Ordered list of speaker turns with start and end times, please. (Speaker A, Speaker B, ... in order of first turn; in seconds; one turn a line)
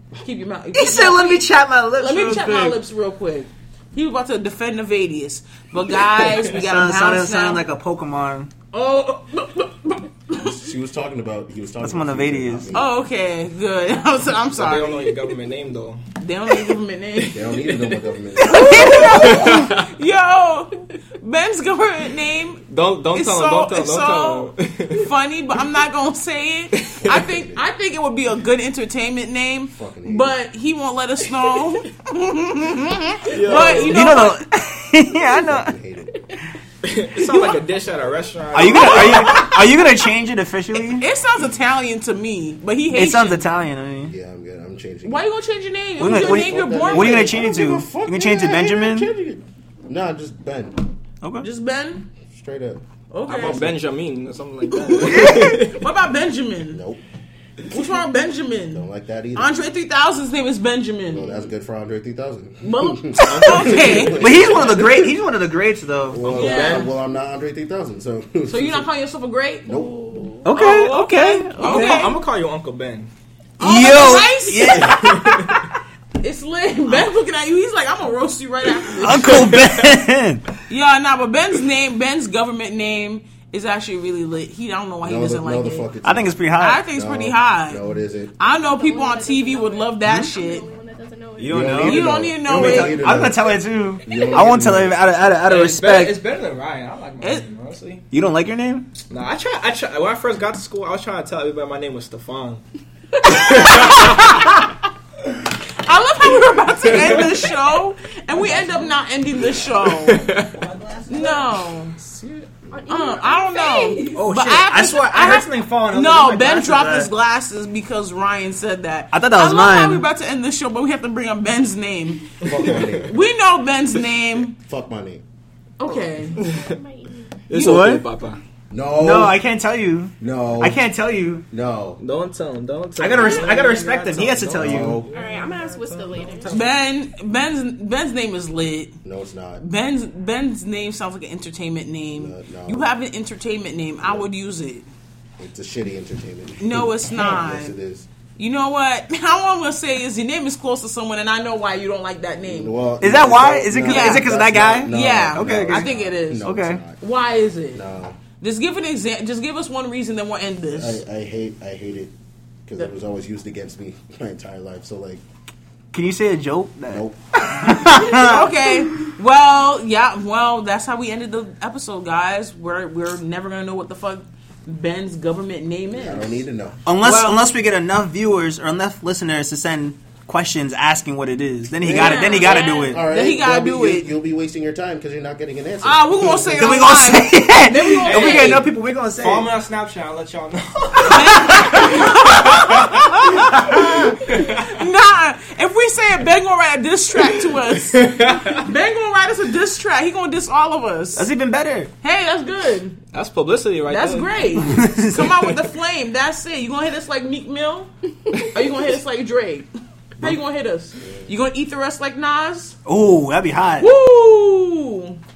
Speaker A: 0.2-7.7
Speaker B: 0.7-2.8
Speaker B: 6.4-8.5
Speaker A: 8.7-10.5
Speaker C: 10.3-12.9
Speaker B: 11.8-12.8
Speaker A: 12.7-15.2
Speaker D: 14.6-16.0
Speaker A: 16.2-17.8
Speaker C: 17.3-19.1
Speaker B: 18.4-19.7
Speaker A: 18.4-34.4
Speaker D: 19.0-19.8
Speaker D: 22.7-25.1
Speaker D: 26.8-27.1
Speaker C: 27.1-27.7
Speaker C: 29.7-30.4
Speaker D: 33.3-34.0
Speaker B: 33.7-35.8
Speaker C: 35.3-36.2
Speaker D: 36.8-39.6
Speaker B: 38.5-41.0
Speaker A: 41.0-43.5
Speaker B: 42.9-44.1
Speaker C: 44.0-45.2
Speaker A: 45.0-47.4
Speaker B: 46.0-49.1
Speaker C: 46.0-50.9
Speaker B: 51.2-51.5
Speaker A: 51.4-52.1
Speaker C: 52.3-53.8
Speaker A: 53.1-53.6
Speaker D: 53.3-55.8
Speaker A: 54.7-56.8
Speaker B: 55.1-55.6
Speaker C: 56.7-57.0
Speaker A: 57.7-61.5
Speaker C: 58.7-59.5
Speaker C: 61.1-65.1
Speaker A: 62.6-64.2
Speaker D: 63.3-64.3
Speaker B: 63.6-66.2
Speaker C: 66.1-68.9
Speaker D: 66.2-66.9
Speaker A: 66.3-66.9
Speaker A: 68.5-72.2
Speaker C: 69.7-70.3
Speaker B: 70.5-72.1
Speaker D: 71.6-73.1
Speaker A: 73.6-75.6
Speaker B: 73.6-75.6
Speaker D: 74.8-75.6
Speaker A: 76.2-79.5
Speaker B: 78.9-80.4
Speaker D: 79.3-79.8
Speaker A: 80.7-85.9
Speaker C: 85.0-88.4
Speaker B: 86.0-86.8
Speaker A: 86.6-87.8
Speaker A: 88.4-90.7
Speaker E: 88.6-91.7
Speaker B: 90.0-90.3
Speaker B: 91.4-96.2
Speaker C: 91.5-95.0
Speaker A: 91.7-93.2
Speaker D: 95.4-98.0
Speaker A: 97.2-97.5
Speaker B: 98.1-98.9
Speaker D: 99.1-102.6
Speaker A: 103.2-104.8
Speaker D: 103.2-104.5
Speaker A: 105.8-110.3
Speaker D: 106.9-107.3
Speaker C: 108.4-108.9
Speaker D: 109.9-110.7
Speaker A: 111.1-112.0
Speaker E: 111.1-111.4
Speaker C: 111.9-112.8
Speaker E: 112.7-114.3
Speaker A: 112.9-124.6
Speaker B: 114.1-117.1
Speaker B: 119.1-120.1
Speaker C: 122.4-123.2
Speaker D: 122.5-123.0
Speaker C: 124.6-125.2
Speaker A: 125.8-126.4
Speaker E: 126.3-127.3
Speaker D: 126.4-126.8
Speaker D: 127.5-128.4
Speaker B: 127.5-128.1
Speaker A: 127.5-127.9
Speaker C: 128.7-129.4
Speaker B: 128.9-131.5
Speaker C: 130.2-130.8
Speaker C: 131.5-132.0
Speaker D: 132.0-136.7
Speaker B: 133.0-135.0
Speaker E: 133.1-134.3
Speaker C: 134.6-135.1
Speaker E: 135.1-136.6
Speaker A: 136.5-139.0
Speaker C: 139.0-139.6
Speaker A: 139.6-144.9
Speaker C: 142.2-142.9
Speaker C: 145.4-148.1
Speaker A: 146.6-147.8
Speaker A: 148.4-152.7
Speaker C: 152.4-157.0
Speaker B: 153.0-155.9
Speaker A: 153.8-157.8
Speaker B: 156.4-156.8
Speaker C: 157.7-158.2
Speaker A: 158.4-161.0
Speaker C: 160.7-162.1
Speaker C: 162.7-165.2
Speaker B: 165.9-168.9
Speaker C: 166.9-167.8
Speaker A: 167.6-176.4
Speaker C: 175.9-176.8
Speaker B: 176.9-183.1
Speaker A: 177.0-177.5
Speaker C: 181.8-186.8
Speaker A: 181.8-184.1
Speaker A: 185.8-188.7
Speaker B: 186.5-189.5
Speaker D: 188.1-188.5
Speaker D: 189.2-194.7
Speaker A: 191.0-201.3
Speaker B: 191.2-192.1
Speaker B: 193.3-193.9
Speaker D: 197.9-198.6
Speaker B: 201.2-201.9
Speaker A: 202.0-203.0
Speaker D: 203.1-204.6
Speaker A: 203.9-212.8
Speaker B: 204.6-205.3
Speaker C: 211.0-211.3
Speaker B: 212.8-213.9
Speaker A: 213.8-215.2